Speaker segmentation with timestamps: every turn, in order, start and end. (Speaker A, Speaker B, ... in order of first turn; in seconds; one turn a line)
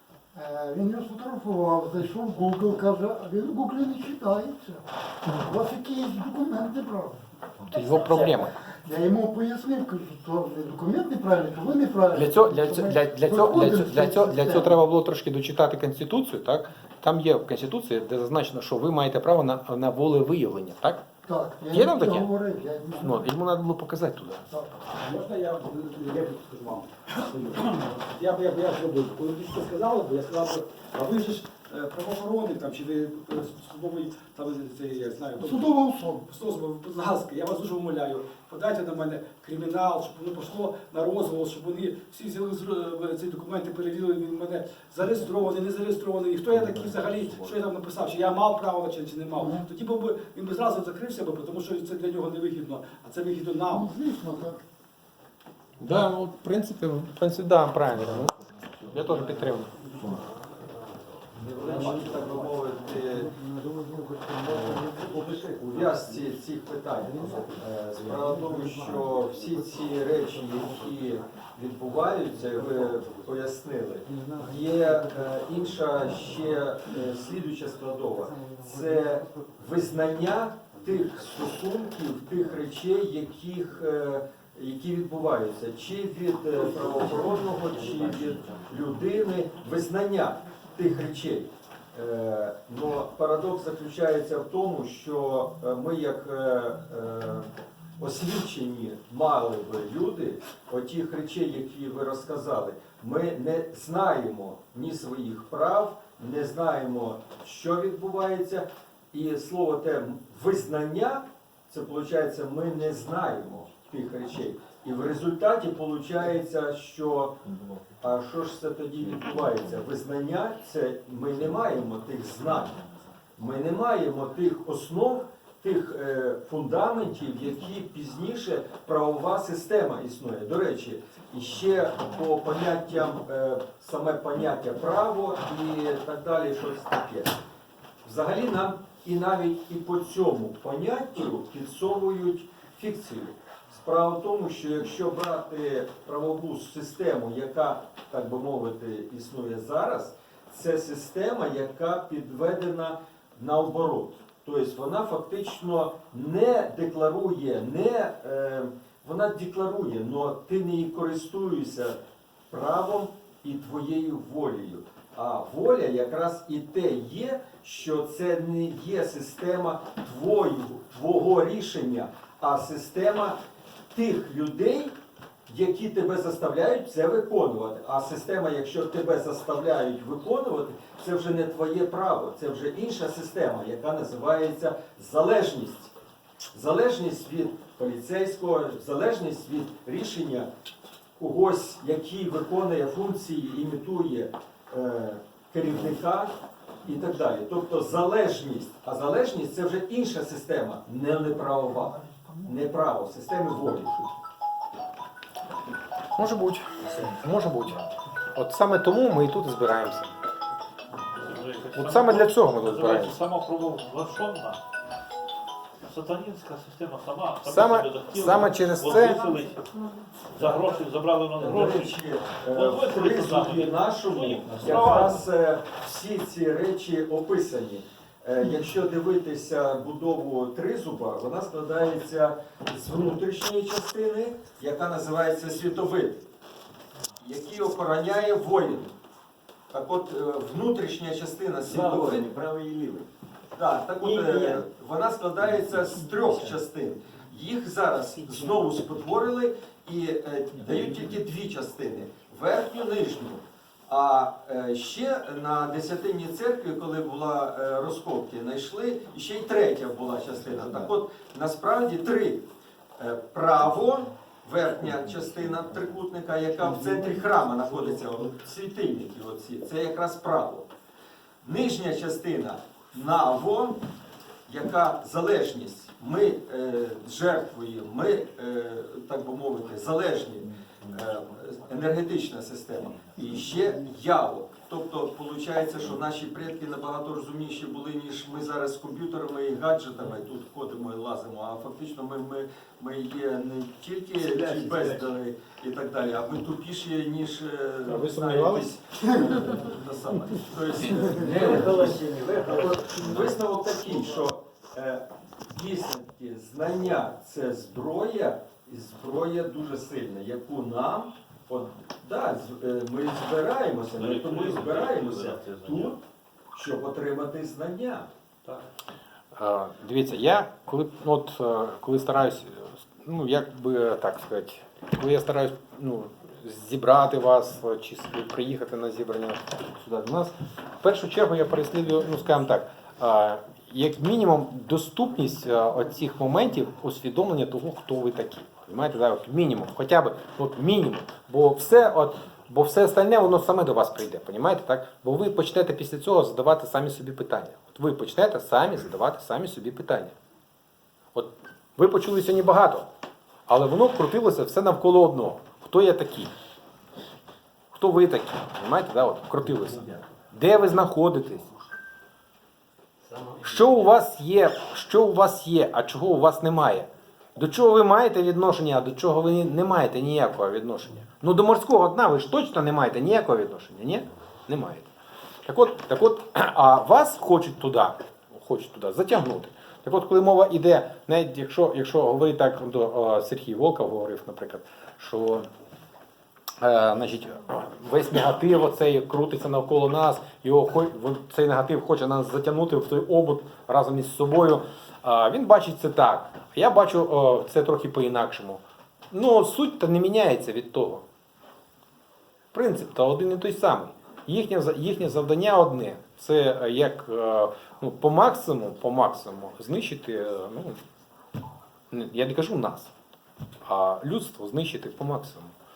Speaker A: 0.3-14.7
Speaker B: 7.7-8.5
Speaker B: 12.1-21.0
Speaker A: 21.2-23.2
Speaker B: 21.7-22.3
Speaker B: 23.0-24.4
Speaker A: 24.5-24.9
Speaker C: 24.9-35.7
Speaker A: 35.4-36.3
Speaker C: 36.3-53.9
Speaker A: 49.4-49.6
Speaker A: 53.7-54.6
Speaker B: 55.8-59.9
Speaker D: 61.4-63.3
Speaker A: 63.3-65.1
Speaker D: 64.4-117.4
Speaker D: 118.0-122.8
Speaker D: 123.4-137.4
Speaker D: 138.0-162.0
Speaker D: 162.5-173.4
Speaker D: 173.9-174.9
Speaker D: 175.5-185.9
Speaker D: 186.5-190.5
Speaker D: 191.2-196.3
Speaker D: 196.8-204.1
Speaker B: 206.1-207.8
Speaker B: 208.3-210.1
Speaker E: 211.1-214.6
Speaker B: 211.7-213.2
Speaker E: 215.8-225.2
Speaker B: 217.4-219.2
Speaker D: 221.4-236.2
Speaker D: 237.2-238.9
Speaker D: 239.7-242.3
Speaker F: 241.6-243.1
Speaker D: 243.5-270.7
Speaker F: 244.0-244.6
Speaker D: 271.4-273.8
Speaker D: 274.5-316.0
Speaker F: 294.2-295.1
Speaker B: 297.9-298.7
Speaker F: 301.1-303.4
Speaker E: 313.9-315.9
Speaker D: 316.5-318.1
Speaker B: 319.3-350.1
Speaker B: 351.1-352.9
Speaker B: 353.5-356.3
Speaker B: 357.7-361.5
Speaker F: 363.1-363.5
Speaker B: 363.4-374.9
Speaker B: 375.4-385.4
Speaker B: 386.6-401.0
Speaker B: 402.5-410.8
Speaker B: 411.9-412.9
Speaker B: 413.6-415.5